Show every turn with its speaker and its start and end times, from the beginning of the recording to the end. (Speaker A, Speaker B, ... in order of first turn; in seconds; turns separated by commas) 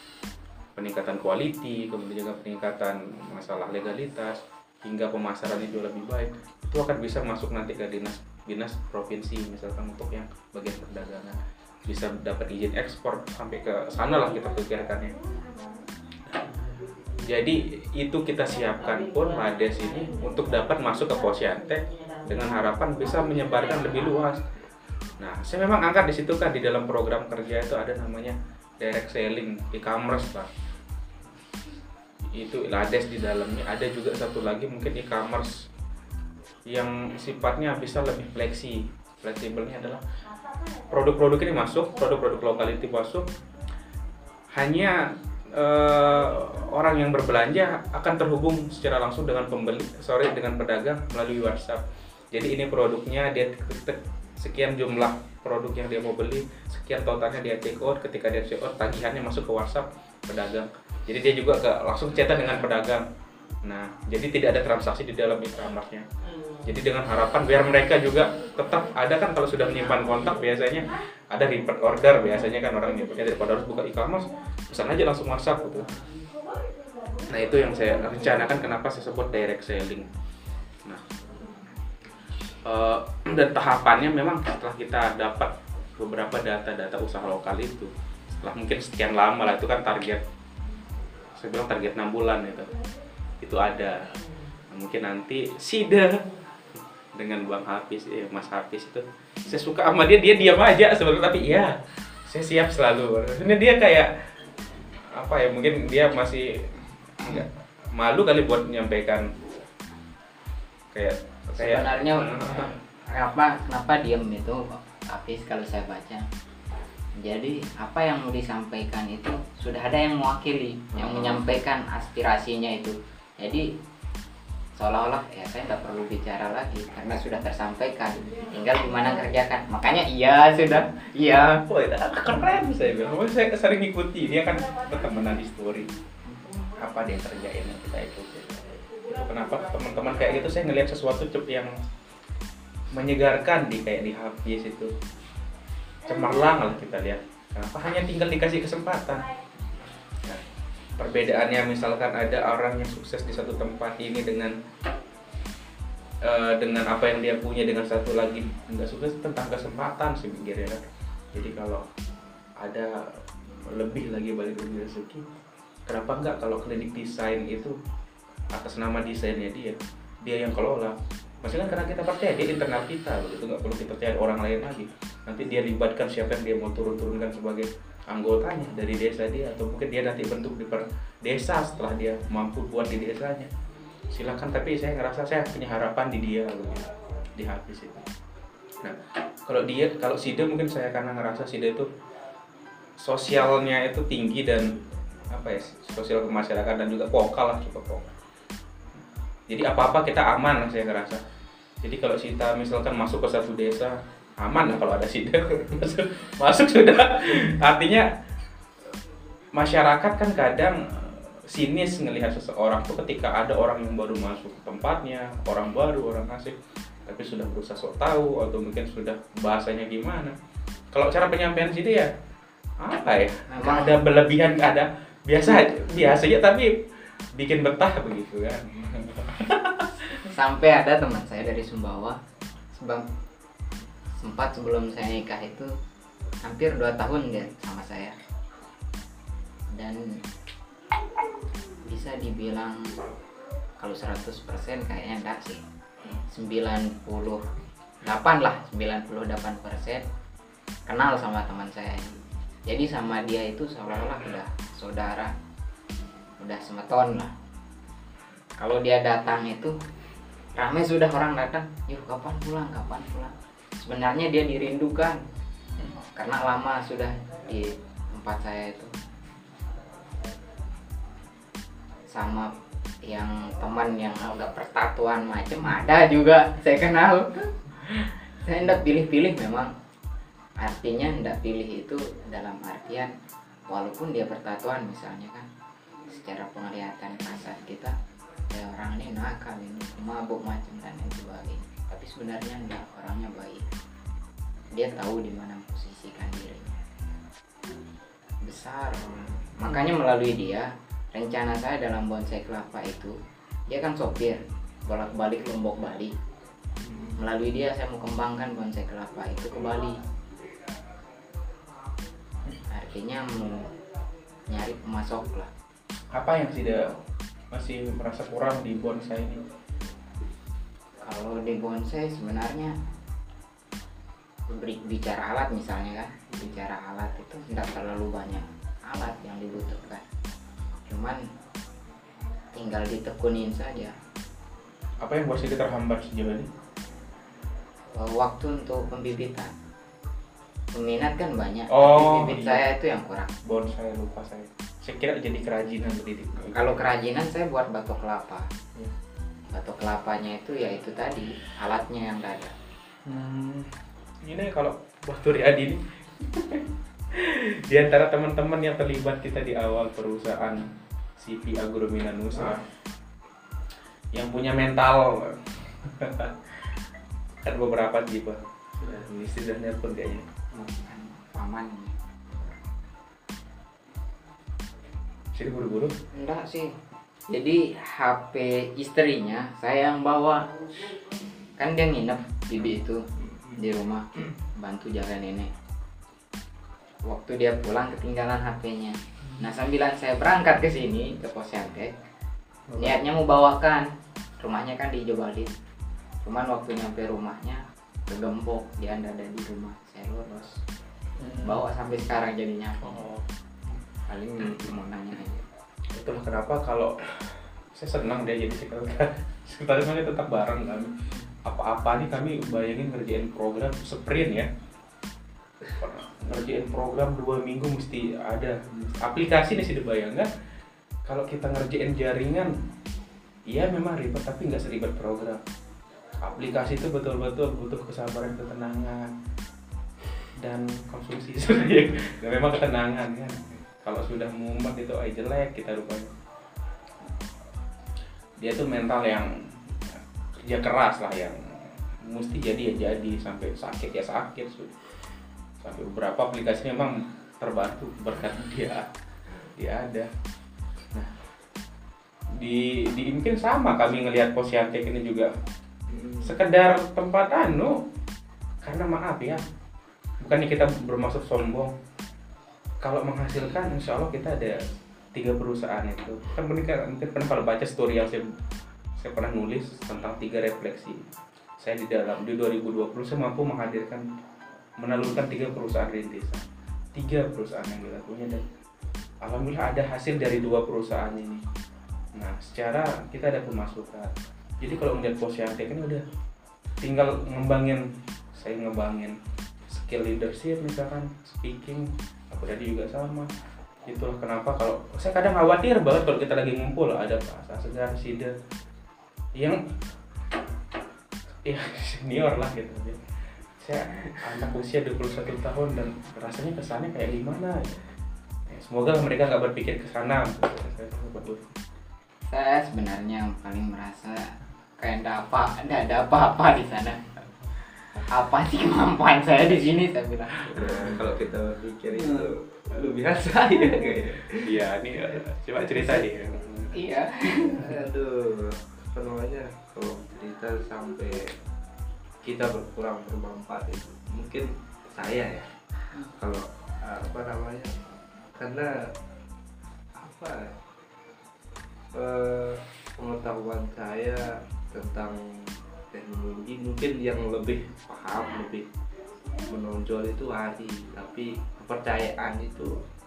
Speaker A: 0.8-15.2, Speaker A: 16.3-24.4, Speaker A: 25.2-30.5, Speaker A: 32.3-35.5, Speaker A: 36.7-40.0, Speaker A: 40.9-43.3, Speaker A: 44.5-51.8, Speaker A: 52.3-63.0, Speaker A: 63.6-66.0, Speaker A: 66.6-75.9, Speaker A: 77.3-80.1, Speaker A: 82.6-90.2, Speaker A: 91.4-92.7, Speaker A: 93.4-94.0, Speaker A: 94.7-101.7, Speaker A: 102.3-104.1, Speaker A: 105.1-106.7, Speaker A: 107.2-109.3, Speaker A: 110.9-112.7, Speaker B: 111.6-116.2, Speaker B: 117.2-123.7, Speaker A: 121.0-121.4, Speaker B: 124.8-131.6, Speaker A: 131.7-135.9, Speaker A: 136.8-141.7, Speaker A: 142.9-144.9, Speaker A: 146.1-149.3, Speaker A: 151.0-154.5, Speaker A: 156.2-161.8, Speaker A: 162.6-162.9, Speaker A: 163.7-165.2, Speaker A: 165.9-167.8, Speaker A: 168.6-183.5, Speaker A: 184.1-188.1, Speaker A: 188.8-191.9, Speaker A: 193.0-194.7, Speaker A: 195.3-198.1, Speaker A: 199.5-201.2, Speaker A: 201.8-208.1, Speaker A: 209.5-220.3, Speaker A: 220.9-222.1, Speaker A: 222.8-226.8, Speaker B: 223.5-224.0, Speaker A: 227.4-230.2, Speaker B: 230.3-232.2, Speaker B: 232.7-233.1, Speaker B: 234.2-235.7, Speaker B: 236.4-238.1, Speaker B: 239.7-240.1, Speaker B: 241.8-242.9, Speaker B: 243.8-245.6, Speaker B: 246.3-247.4, Speaker B: 248.0-250.0, Speaker B: 250.9-255.3, Speaker B: 256.4-257.3, Speaker B: 258.6-259.8, Speaker B: 260.6-265.2, Speaker B: 266.1-268.9, Speaker B: 272.1-272.5, Speaker B: 273.1-279.7, Speaker B: 280.6-283.1, Speaker B: 283.7-285.5, Speaker B: 286.1-287.9, Speaker B: 288.5-293.7, Speaker B: 294.7-296.8, Speaker B: 298.4-303.1, Speaker B: 303.7-306.1, Speaker C: 306.8-307.1, Speaker B: 307.2-310.0, Speaker B: 312.7-313.7, Speaker B: 314.5-315.5, Speaker A: 316.1-316.9, Speaker A: 317.5-319.4, Speaker B: 321.0-322.7, Speaker B: 324.5-330.0, Speaker B: 330.9-331.2, Speaker B: 332.6-333.9, Speaker A: 335.0-336.5, Speaker B: 337.9-339.5, Speaker B: 340.7-343.3, Speaker A: 341.7-342.6, Speaker A: 343.4-346.8, Speaker B: 346.5-348.4, Speaker B: 349.5-352.5, Speaker A: 353.1-362.6, Speaker A: 364.1-366.6, Speaker A: 367.4-370.3, Speaker B: 370.9-371.9, Speaker A: 375.3-375.9, Speaker B: 376.1-376.7, Speaker B: 377.3-380.5, Speaker B: 381.6-383.0, Speaker B: 383.6-385.5, Speaker B: 387.1-391.9, Speaker B: 392.8-393.9, Speaker B: 394.4-395.5, Speaker B: 396.2-400.6, Speaker B: 401.4-403.0, Speaker A: 402.9-403.2, Speaker B: 404.1-405.4, Speaker A: 405.9-410.9, Speaker A: 411.4-414.5, Speaker A: 415.8-420.3, Speaker A: 421.1-422.5, Speaker A: 423.5-425.4, Speaker A: 426.2-429.1, Speaker A: 430.4-436.1, Speaker A: 438.4-441.4, Speaker A: 442.0-444.7, Speaker A: 445.6-448.9, Speaker A: 449.6-450.1, Speaker A: 452.4-455.3, Speaker C: 455.9-456.3, Speaker A: 456.2-457.8, Speaker A: 458.6-459.4, Speaker A: 460.2-461.7, Speaker A: 462.8-464.6, Speaker A: 465.1-468.2, Speaker A: 469.0-471.0, Speaker A: 471.6-474.1, Speaker A: 474.8-478.4, Speaker A: 479.2-481.4, Speaker A: 482.2-486.0, Speaker A: 486.8-489.2, Speaker A: 489.7-493.3, Speaker A: 493.9-498.3, Speaker A: 501.4-503.0, Speaker A: 503.6-507.6, Speaker A: 508.5-511.4, Speaker B: 512.3-517.0, Speaker B: 518.1-520.4, Speaker C: 520.5-526.1, Speaker A: 524.3-526.7, Speaker B: 526.7-527.7, Speaker C: 527.5-531.3, Speaker C: 532.2-535.5, Speaker C: 536.1-537.7, Speaker C: 538.3-538.7, Speaker C: 540.0-540.5, Speaker C: 541.9-548.6, Speaker C: 549.4-552.8